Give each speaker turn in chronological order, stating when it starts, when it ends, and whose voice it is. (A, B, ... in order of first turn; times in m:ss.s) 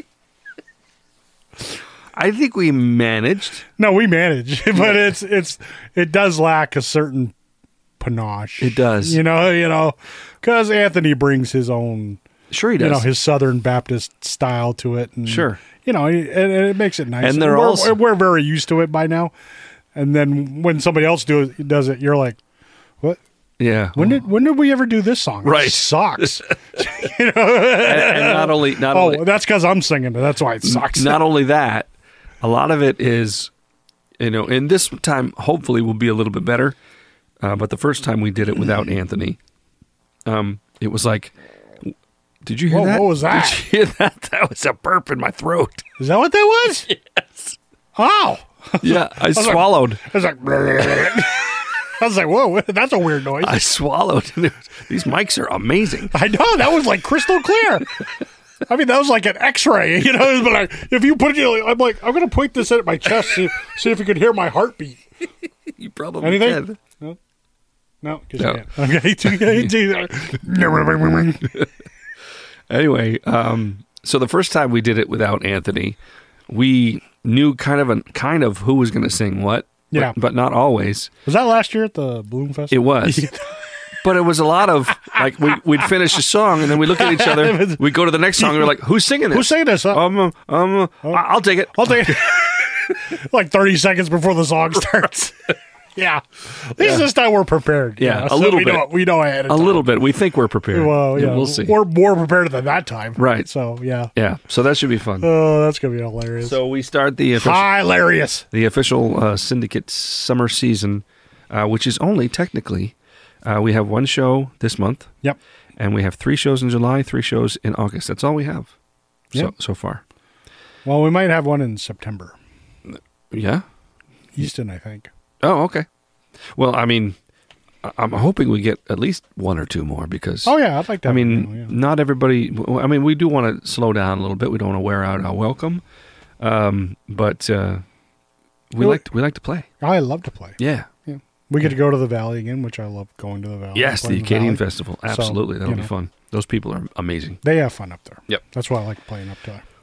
0:02.1-0:03.6 A
0:03.8-0:07.3 B
0:08.0-0:12.2 B
0:08.6-0:09.2 A
0:12.5-0:13.1 A
0:12.8-0:19.3 B
0:15.3-0:15.6 A
0:17.2-0:18.0 A
0:20.0-0:22.4 B
0:23.6-0:24.2 A
0:24.0-0:31.2 B
0:25.4-0:26.4 A
0:27.7-0:29.2 A
0:30.6-0:31.9 A
0:32.4-0:33.5 A
0:34.2-0:36.8 A
0:37.4-0:39.4 A
0:40.3-0:45.8 A
0:42.7-0:43.6 B
0:46.0-0:46.9 B
0:46.9-0:47.6 A
0:48.0-0:53.6 B
0:48.8-0:50.0 A
0:53.4-0:56.1 A
0:56.1-0:57.9 B
0:58.6-1:05.0 B
1:05.7-1:06.8 A
1:06.2-1:07.2 B
1:08.0-1:11.5 B
1:08.4-1:08.6 A
1:09.2-1:09.7 A
1:11.4-1:11.7 A
1:12.7-1:16.0 A
1:16.5-1:21.1 A
1:21.3-1:23.7 B
1:22.7-1:23.3 A
1:24.0-1:32.3 A
1:26.7-1:28.8 B
1:29.3-1:30.0 B
1:31.0-1:39.9 B
1:36.8-1:37.0 A
1:38.0-1:38.9 A
1:39.5-1:41.8 A
1:40.7-1:44.1 B
1:43.2-1:43.5 A
1:44.2-1:45.3 A
1:45.2-1:46.6 B
1:46.4-1:47.7 A
1:47.4-1:48.5 B
1:48.5-1:55.1 A
1:55.8-1:58.7 A
1:59.3-2:00.0 A
2:00.8-2:02.4 B
2:02.9-2:03.6 A
2:04.4-2:05.1 B
2:05.4-2:05.9 A
2:06.5-2:07.2 A
2:07.8-2:15.8 A
2:10.4-2:11.7 B
2:16.4-2:17.8 A
2:18.7-2:19.7 A
2:18.8-2:19.0 B
2:19.8-2:25.9 B
2:20.6-2:20.9 A
2:23.7-2:27.4 A
2:27.4-2:29.6 B